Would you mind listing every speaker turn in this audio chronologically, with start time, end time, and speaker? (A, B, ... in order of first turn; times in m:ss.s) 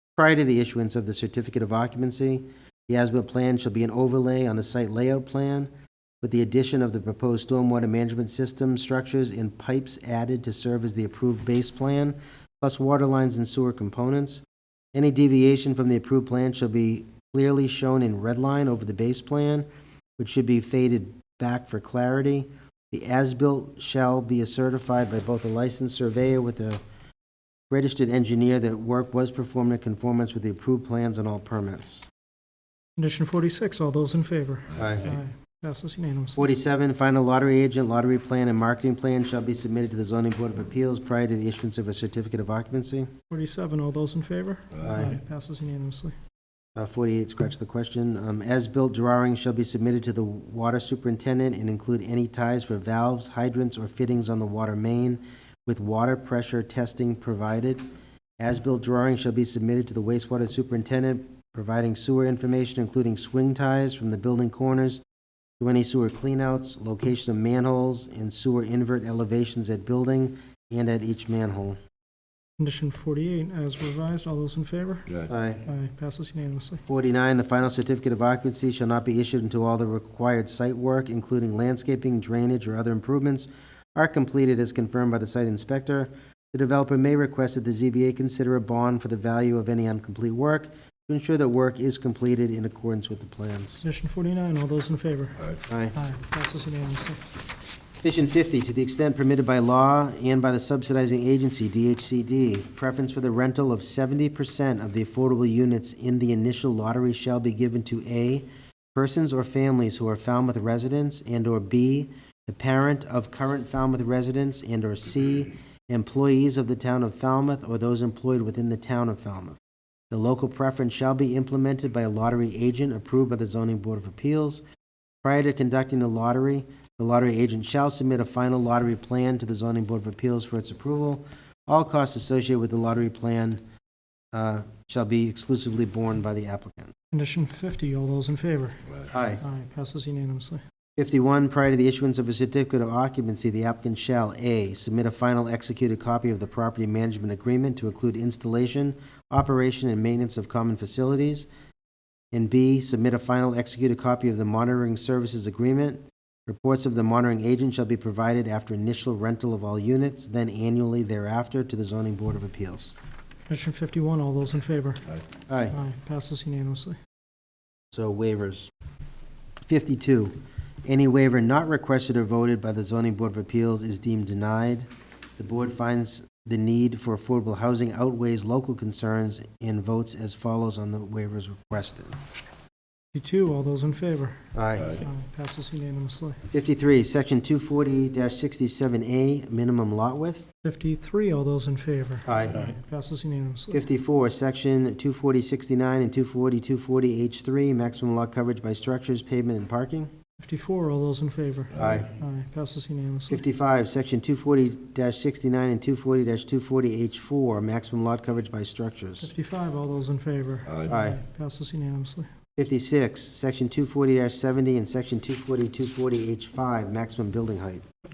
0:00.2-0:05.7 A
0:06.2-0:14.4 A
0:14.9-0:19.7 A
0:20.2-0:26.8 A
0:27.7-0:32.1 A
0:33.0-0:36.5 B
0:34.7-0:35.1 A
0:36.4-0:43.1 A
0:43.3-0:46.2 B
0:44.8-0:45.2 A
0:46.8-0:57.8 A
0:58.4-1:05.0 A
1:05.6-1:11.8 A
1:12.6-1:16.8 B
1:15.3-1:15.6 A
1:16.9-1:33.8 A
1:33.8-1:37.2 B
1:35.7-1:36.0 A
1:38.0-1:59.6 A
2:00.1-2:04.6 A
2:05.2-2:13.6 A
2:14.3-2:16.9 A
2:17.1-2:20.6 B
2:19.1-2:19.4 A
2:21.0-2:31.5 A
2:32.3-2:42.9 A
2:43.5-2:45.2 B
2:45.5-2:45.8 A
2:45.7-2:47.0 B
2:47.9-2:48.7 A
2:49.7-3:02.2 A
3:03.1-3:06.4 B
3:04.5-3:05.0 A
3:06.5-3:10.5 A
3:10.6-3:13.8 B
3:12.3-3:12.7 A
3:13.7-3:20.1 A
3:20.4-3:23.4 B
3:21.7-3:22.1 A
3:23.3-3:29.3 A
3:29.2-3:32.3 B
3:30.9-3:31.2 A
3:32.6-3:37.8 A